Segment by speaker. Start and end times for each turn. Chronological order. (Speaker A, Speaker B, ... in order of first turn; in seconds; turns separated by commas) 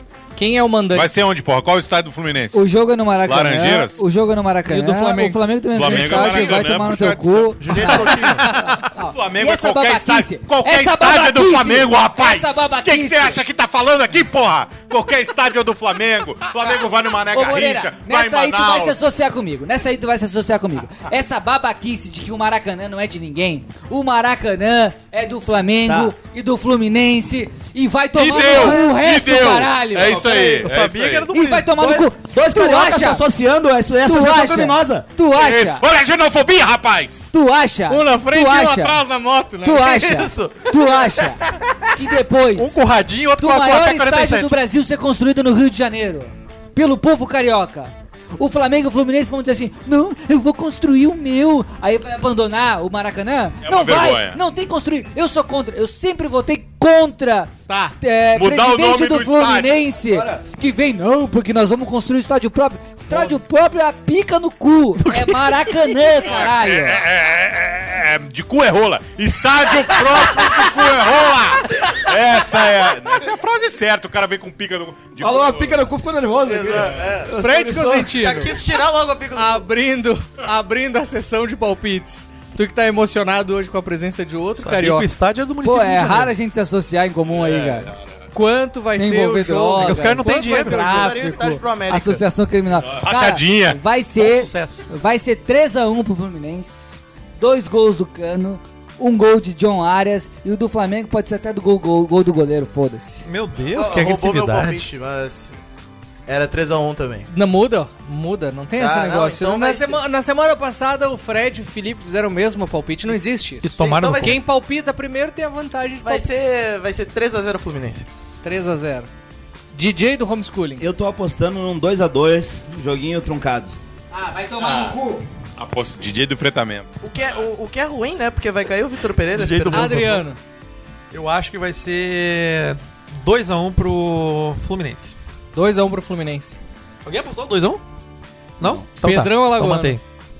Speaker A: 0.3-1.1, Speaker B: 0.9-2.6, Speaker C: 2.5-13.4, Speaker B: 3.2-4.0, Speaker A: 4.7-6.4, Speaker B: 5.7-7.9, Speaker D: 7.6-8.5, Speaker B: 8.8-19.0, Speaker C: 17.3-30.3, Speaker E: 25.9-26.1, Speaker B: 28.1-31.3, Speaker E: 28.4-28.8, Speaker E: 30.0-30.7, Speaker F: 30.4-31.9, Speaker C: 31.3-33.2, Speaker E: 31.8-35.0, Speaker C: 34.0-35.8, Speaker B: 35.3-37.3, Speaker C: 37.3-39.0, Speaker A: 37.9-39.8, Speaker C: 39.6-41.4, Speaker D: 39.6-41.2, Speaker C: 41.9-42.8, Speaker F: 42.5-44.5, Speaker C: 43.4-67.0, Speaker B: 53.6-54.4, Speaker A: 57.7-58.0, Speaker B: 58.3-59.8, Speaker E: 60.1-60.4, Speaker B: 66.2-75.8, Speaker E: 75.2-78.3, Speaker D: 76.4-77.3, Speaker A: 77.4-78.5, Speaker D: 78.1-79.6, Speaker A: 79.3-85.1, Speaker F: 84.6-86.3, Speaker C: 85.6-87.9, Speaker B: 87.3-88.0, Speaker A: 88.3-91.6, Speaker C: 88.9-90.3, Speaker F: 89.7-91.1, Speaker D: 90.5-92.2, Speaker C: 91.9-103.3, Speaker B: 92.8-93.8, Speaker F: 94.2-94.9, Speaker F: 103.2-104.8, Speaker D: 103.7-105.5, Speaker D: 106.3-107.3, Speaker A: 107.3-116.2, Speaker D: 108.8-110.0, Speaker F: 113.6-114.4, Speaker D: 113.8-114.4, Speaker D: 116.0-118.1, Speaker A: 118.4-119.1, Speaker A: 119.7-120.8, Speaker E: 120.8-123.8, Speaker C: 124.1-125.2, Speaker B: 124.6-125.0, Speaker B: 125.6-126.9, Speaker D: 127.0-130.1, Speaker F: 129.3-130.2, Speaker A: 129.7-130.4, Speaker F: 131.1-135.2, Speaker A: 135.5-136.6, Speaker F: 137.0-137.8, Speaker F: 138.6-140.0, Speaker E: 138.6-138.9, Speaker A: 139.0-140.0